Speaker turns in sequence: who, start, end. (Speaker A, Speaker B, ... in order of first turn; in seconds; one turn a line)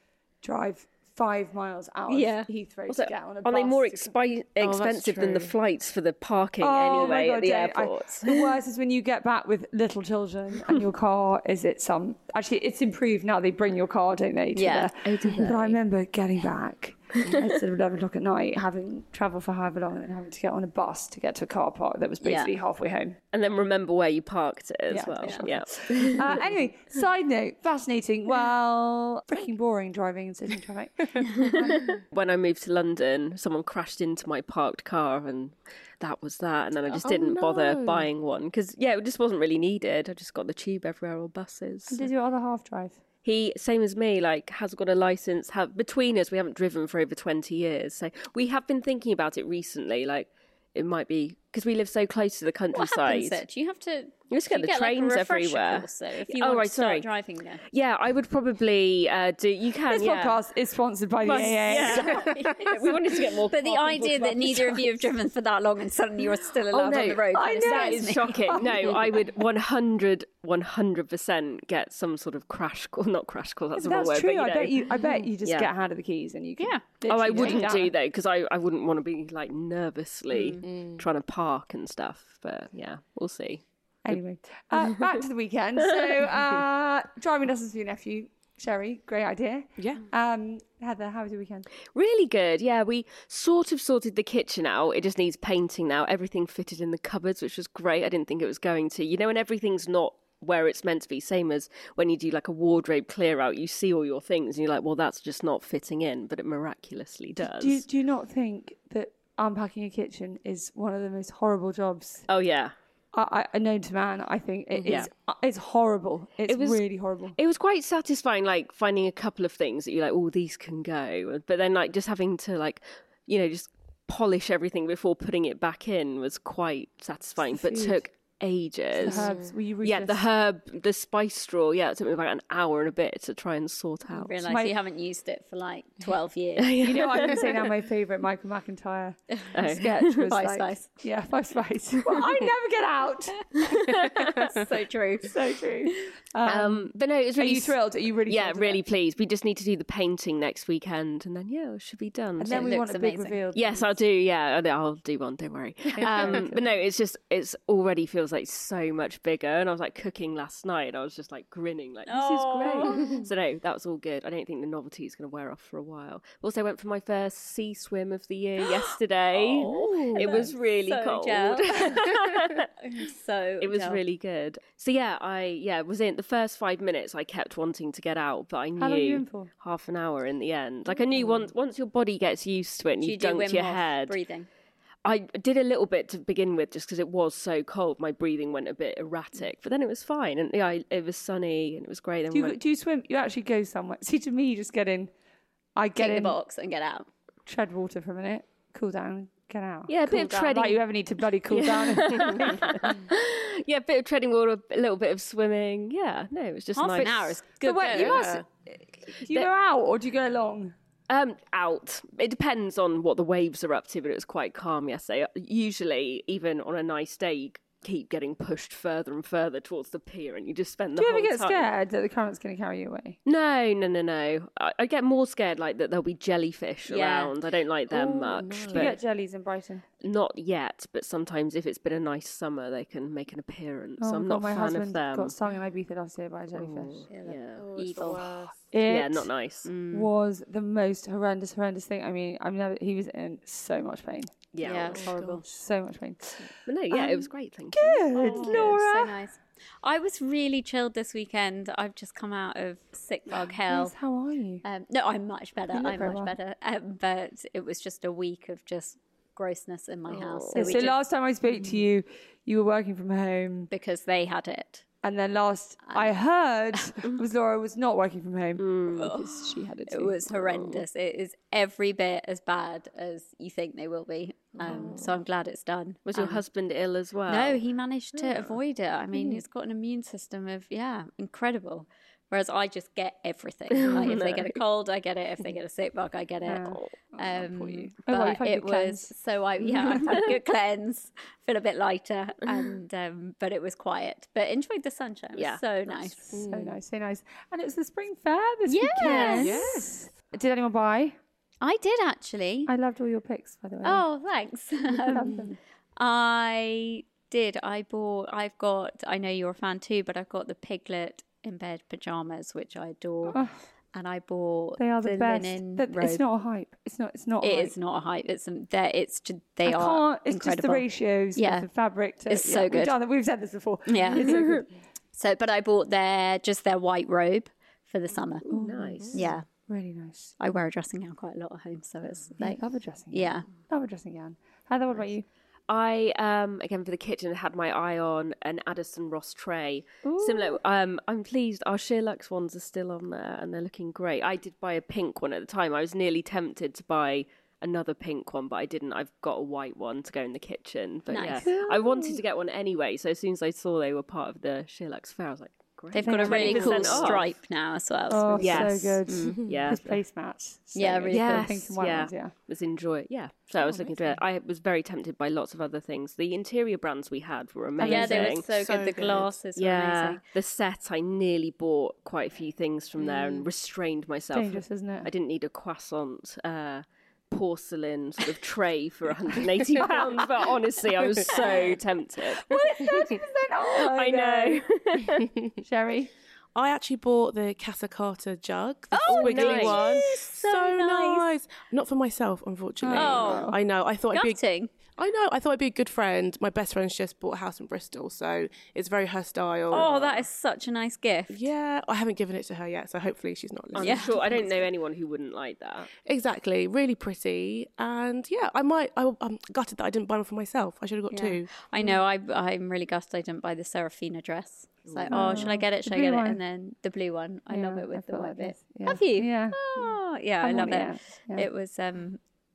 Speaker A: 0.4-4.1
Speaker B: 2.1-2.5
Speaker C: 2.9-8.5
Speaker D: 4.6-5.5
Speaker A: 6.6-23.2
Speaker B: 14.5-15.5
Speaker C: 15.2-15.7
Speaker B: 22.2-22.5
Speaker C: 23.3-26.4
Speaker A: 24.9-31.8
Speaker B: 25.2-25.5
Speaker C: 31.5-42.1
Speaker D: 37.0-38.1
Speaker A: 41.9-43.0
Speaker C: 43.2-53.4
Speaker B: 52.7-57.6
Speaker C: 54.3-57.1
Speaker C: 57.7-60.4
Speaker A: 59.9-62.4
Speaker C: 61.2-65.0
Speaker B: 62.3-62.7
Speaker B: 63.5-68.4
Speaker D: 66.8-67.2
Speaker A: 67.0-69.2
Speaker C: 67.5-74.9
Speaker A: 73.8-77.9
Speaker C: 75.4-75.7
Speaker B: 76.6-77.7
Speaker C: 77.1-83.6
Speaker B: 80.3-80.6
Speaker D: 80.6-81.0
Speaker A: 84.0-91.7
Speaker C: 84.8-85.1
Speaker D: 89.8-90.0
Speaker C: 91.9-107.8
Speaker A: 107.4-112.2
Speaker C: 112.3-112.7
Speaker A: 113.1-117.4
Speaker C: 114.7-115.1
Speaker C: 116.5-134.3
Speaker A: 127.4-128.0
Speaker A: 128.9-130.2
Speaker D: 129.1-129.5
Speaker B: 134.2-136.8
Speaker A: 134.4-134.8
Speaker C: 136.6-137.7
Speaker A: 136.8-143.9
Speaker C: 139.5-140.3
Speaker B: 140.3-140.9
Speaker C: 143.9-144.2
Speaker B: 144.5-145.3
Speaker A: 145.2-148.8
Speaker C: 146.4-152.7
Speaker A: 152.4-154.0
Speaker B: 152.4-153.4
Speaker C: 153.5-172.7
Speaker A: 155.9-156.6
Speaker B: 156.0-156.4
Speaker B: 162.1-163.2
Speaker A: 162.2-163.0
Speaker D: 169.3-170.5
Speaker B: 169.5-174.0
Speaker C: 173.6-184.2
Speaker A: 178.8-179.5
Speaker B: 183.0-184.5
Speaker C: 185.0-192.6
Speaker A: 192.3-195.1
Speaker A: 195.8-196.4
Speaker B: 195.9-197.1
Speaker A: 197.4-202.9
Speaker C: 199.9-200.8
Speaker C: 201.5-207.4
Speaker B: 206.7-208.3
Speaker A: 207.6-210.7
Speaker D: 208.0-208.4
Speaker C: 211.1-221.7
Speaker A: 220.9-223.2
Speaker C: 223.2-229.0
Speaker B: 226.9-227.3
Speaker D: 228.1-229.0
Speaker A: 228.7-229.8
Speaker C: 230.0-235.3
Speaker A: 234.0-237.1
Speaker C: 236.5-238.2
Speaker B: 237.1-238.5
Speaker D: 237.6-238.6
Speaker A: 238.7-239.3
Speaker C: 238.9-239.7
Speaker B: 239.6-240.1
Speaker A: 239.9-244.3
Speaker C: 244.5-245.1
Speaker B: 244.6-245.5
Speaker D: 244.7-245.4
Speaker A: 245.5-249.2
Speaker C: 246.6-248.8
Speaker B: 248.2-253.9
Speaker A: 253.4-254.6
Speaker B: 254.6-260.9
Speaker A: 255.7-256.3
Speaker D: 260.1-260.5
Speaker A: 260.5-263.7
Speaker B: 263.7-264.8
Speaker A: 265.0-270.8
Speaker B: 265.9-266.1
Speaker C: 268.6-269.1
Speaker B: 268.9-269.3
Speaker B: 269.9-276.4
Speaker C: 274.6-275.0
Speaker D: 274.7-275.1
Speaker C: 276.1-277.6
Speaker B: 277.3-296.2
Speaker C: 278.1-278.6
Speaker C: 283.7-284.6
Speaker A: 286.4-290.2
Speaker C: 295.3-296.3
Speaker A: 296.3-301.2
Speaker D: 296.3-296.8
Speaker B: 298.7-299.6
Speaker C: 299.0-299.4
Speaker D: 299.3-299.9
Speaker B: 301.6-302.7
Speaker A: 302.6-304.0
Speaker B: 303.8-305.4
Speaker A: 304.9-305.6
Speaker B: 306.0-313.4
Speaker B: 313.9-316.2
Speaker A: 314.8-317.7
Speaker B: 317.4-321.7
Speaker A: 319.6-324.7
Speaker B: 322.2-322.9
Speaker B: 323.9-324.4
Speaker B: 325.1-328.4
Speaker C: 328.4-329.3
Speaker A: 328.5-330.3
Speaker B: 329.1-329.4
Speaker B: 330.4-332.6
Speaker A: 332.4-335.2
Speaker B: 333.1-333.5
Speaker C: 335.7-357.3
Speaker A: 340.0-340.6
Speaker B: 351.1-351.5
Speaker A: 351.4-352.2
Speaker B: 355.9-359.4
Speaker A: 356.0-357.2
Speaker A: 358.1-362.3
Speaker C: 358.4-360.0
Speaker D: 359.3-359.7
Speaker B: 360.7-361.5
Speaker C: 361.1-368.5
Speaker A: 363.6-364.2
Speaker A: 367.8-368.4
Speaker B: 367.8-370.2
Speaker D: 368.4-369.3
Speaker C: 369.6-382.7
Speaker D: 373.0-373.4
Speaker A: 374.3-375.1
Speaker A: 379.8-380.3
Speaker A: 381.2-381.7
Speaker A: 382.3-384.6
Speaker D: 382.8-383.1
Speaker C: 383.7-385.3
Speaker A: 385.6-386.1
Speaker D: 386.5-399.9
Speaker B: 388.9-391.3
Speaker C: 389.2-389.9
Speaker A: 392.8-393.6
Speaker B: 392.9-393.5
Speaker B: 394.1-394.7
Speaker B: 399.7-401.5
Speaker C: 399.7-400.2
Speaker D: 401.3-404.7
Speaker C: 403.7-405.9
Speaker B: 403.8-404.1
Speaker D: 406.1-411.9
Speaker B: 411.1-422.2
Speaker D: 415.1-415.5
Speaker A: 415.1-416.4
Speaker A: 417.5-419.6
Speaker A: 420.4-421.5